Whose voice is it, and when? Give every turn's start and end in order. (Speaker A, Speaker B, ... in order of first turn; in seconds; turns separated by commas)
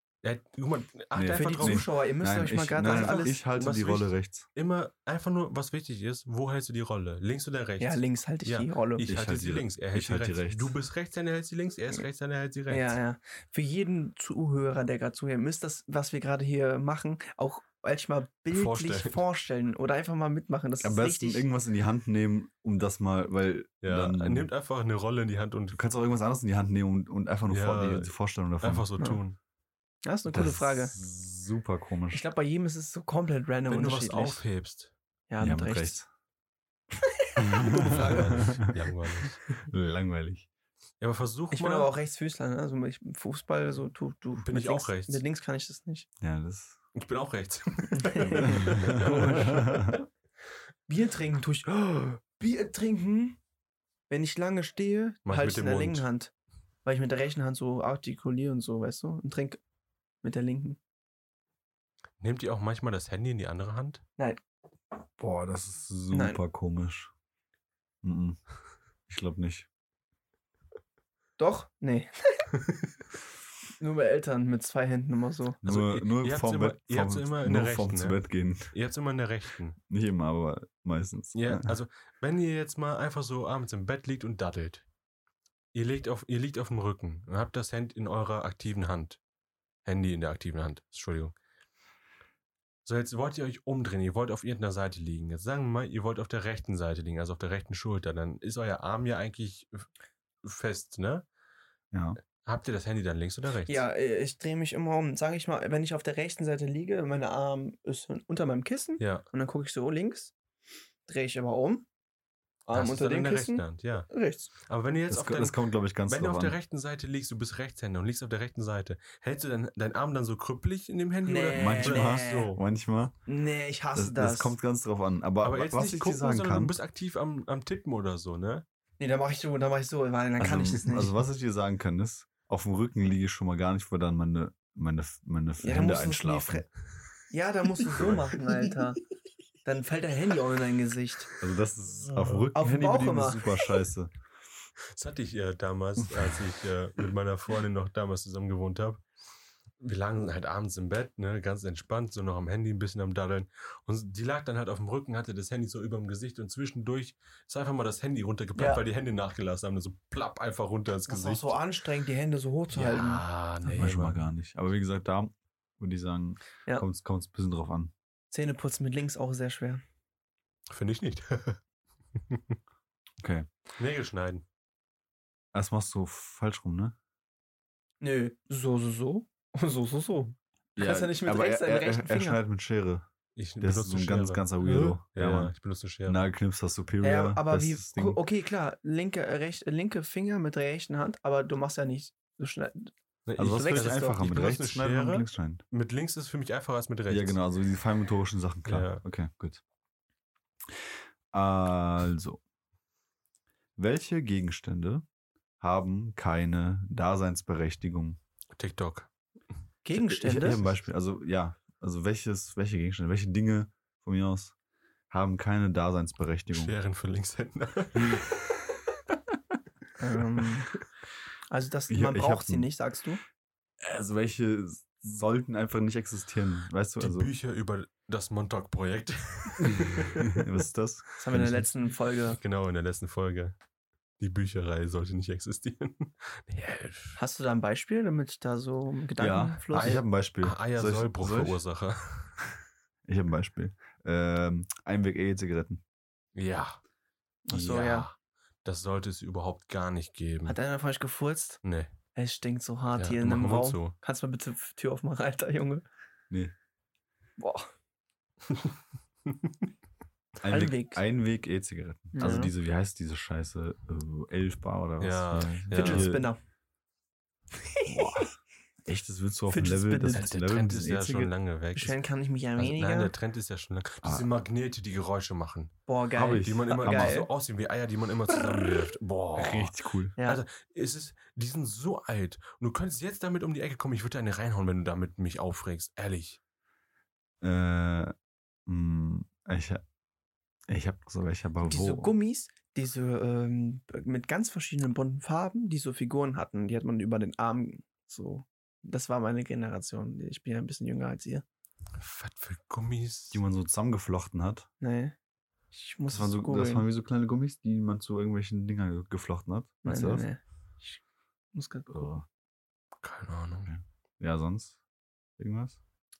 Speaker A: 0.2-1.9, Speaker B: 1.1-4.5, Speaker C: 1.3-3.4, Speaker A: 2.9-12.9, Speaker C: 7.8-9.1, Speaker B: 9.1-10.7, Speaker C: 12.7-21.5, Speaker A: 18.5-19.2, Speaker B: 20.8-24.5, Speaker A: 23.8-25.9, Speaker B: 25.7-28.9, Speaker A: 27.5-29.4, Speaker C: 30.1-30.9, Speaker B: 30.3-32.2, Speaker C: 32.1-34.4, Speaker A: 33.7-34.9, Speaker C: 35.3-36.0, Speaker B: 35.4-36.1, Speaker C: 37.2-38.7, Speaker B: 37.4-38.7, Speaker A: 37.6-39.5, Speaker B: 39.7-40.5, Speaker A: 41.0-41.9, Speaker C: 41.5-46.1, Speaker A: 44.4-45.2, Speaker B: 46.2-46.8, Speaker A: 47.0-50.0, Speaker C: 48.0-50.0, Speaker B: 48.4-50.0, Speaker C: 50.9-53.4, Speaker C: 54.1-56.3, Speaker A: 55.2-56.1, Speaker C: 56.9-59.6, Speaker C: 60.2-60.8, Speaker A: 62.2-64.0, Speaker B: 65.2-67.1, Speaker C: 66.1-66.4, Speaker B: 68.0-68.4, Speaker B: 69.1-69.7, Speaker C: 71.4-72.5, Speaker C: 73.8-75.6, Speaker B: 75.6-78.7, Speaker A: 75.6-78.2, Speaker A: 78.7-79.8, Speaker B: 79.9-81.7, Speaker A: 81.3-84.8, Speaker A: 85.7-89.2, Speaker A: 89.8-91.4, Speaker A: 92.8-99.9, Speaker A: 100.4-101.3, Speaker B: 101.9-102.2, Speaker A: 102.4-103.8, Speaker C: 103.7-110.3, Speaker A: 109.0-109.3, Speaker C: 111.1-111.9, Speaker C: 112.7-114.5, Speaker A: 112.7-122.6, Speaker B: 115.1-116.6, Speaker C: 121.2-122.5, Speaker B: 121.5-123.2, Speaker C: 123.3-124.5, Speaker B: 124.0-126.7, Speaker A: 125.4-128.6, Speaker C: 129.0-131.2, Speaker B: 130.4-136.7, Speaker C: 135.6-136.7, Speaker C: 137.3-139.0, Speaker A: 137.8-138.7, Speaker C: 139.6-141.3, Speaker B: 141.4-144.1, Speaker A: 142.0-142.5, Speaker C: 142.5-143.5, Speaker A: 144.9-149.0, Speaker B: 146.0-146.4, Speaker A: 149.8-161.6, Speaker C: 158.6-158.8, Speaker C: 161.1-163.2, Speaker A: 162.7-164.2, Speaker B: 163.6-167.9, Speaker C: 168.3-169.8, Speaker A: 170.7-171.6, Speaker A: 172.2-172.6, Speaker B: 173.2-173.5, Speaker A: 173.8-174.4, Speaker B: 175.5-176.9, Speaker C: 178.0-182.4, Speaker B: 180.8-183.1, Speaker A: 183.4-184.5, Speaker B: 183.6-185.5, Speaker C: 184.6-185.0, Speaker A: 185.1-186.2, Speaker B: 186.1-188.2, Speaker C: 187.0-194.2, Speaker A: 193.3-197.4, Speaker B: 193.4-195.6, Speaker B: 197.1-199.6, Speaker A: 198.7-199.0, Speaker B: 200.7-202.4, Speaker B: 203.8-205.1, Speaker B: 205.6-208.2, Speaker A: 208.6-209.1, Speaker C: 209.8-210.6, Speaker B: 209.9-214.6, Speaker B: 215.1-216.7, Speaker A: 216.5-218.6, Speaker B: 218.0-218.2, Speaker C: 220.0-220.7, Speaker C: 221.5-223.2, Speaker B: 221.9-222.7, Speaker B: 223.8-227.3, Speaker A: 227.0-230.4, Speaker B: 229.6-231.7, Speaker C: 231.2-232.4, Speaker A: 232.3-233.6, Speaker A: 234.2-237.2, Speaker C: 237.2-240.0, Speaker B: 239.2-241.6, Speaker A: 239.8-242.4, Speaker B: 243.1-245.8, Speaker A: 246.3-246.8, Speaker C: 247.4-248.1, Speaker A: 247.5-250.6, Speaker C: 250.4-251.6, Speaker A: 251.6-251.9, Speaker C: 252.1-255.8, Speaker A: 252.9-253.9, Speaker C: 257.4-257.7, Speaker A: 259.3-259.6, Speaker B: 260.4-266.3, Speaker C: 260.5-261.0, Speaker C: 262.1-262.5, Speaker A: 265.0-266.2, Speaker C: 265.7-266.4, Speaker C: 267.7-268.3, Speaker B: 267.9-271.3, Speaker C: 269.5-270.3, Speaker A: 270.1-272.0, Speaker C: 271.8-273.1, Speaker A: 272.6-275.7, Speaker C: 275.9-277.3, Speaker B: 276.1-277.2, Speaker A: 276.4-286.4, Speaker B: 279.4-280.1, Speaker B: 287.4-288.1, Speaker B: 288.7-289.8, Speaker B: 290.7-292.1, Speaker C: 291.6-301.4, Speaker A: 302.0-303.4, Speaker B: 303.3-304.7, Speaker C: 304.8-305.1, Speaker C: 305.7-306.9, Speaker B: 306.1-310.3, Speaker C: 309.9-311.0, Speaker C: 311.5-311.9, Speaker B: 311.9-312.2, Speaker A: 313.0-313.7, Speaker B: 313.7-314.8, Speaker B: 315.4-315.8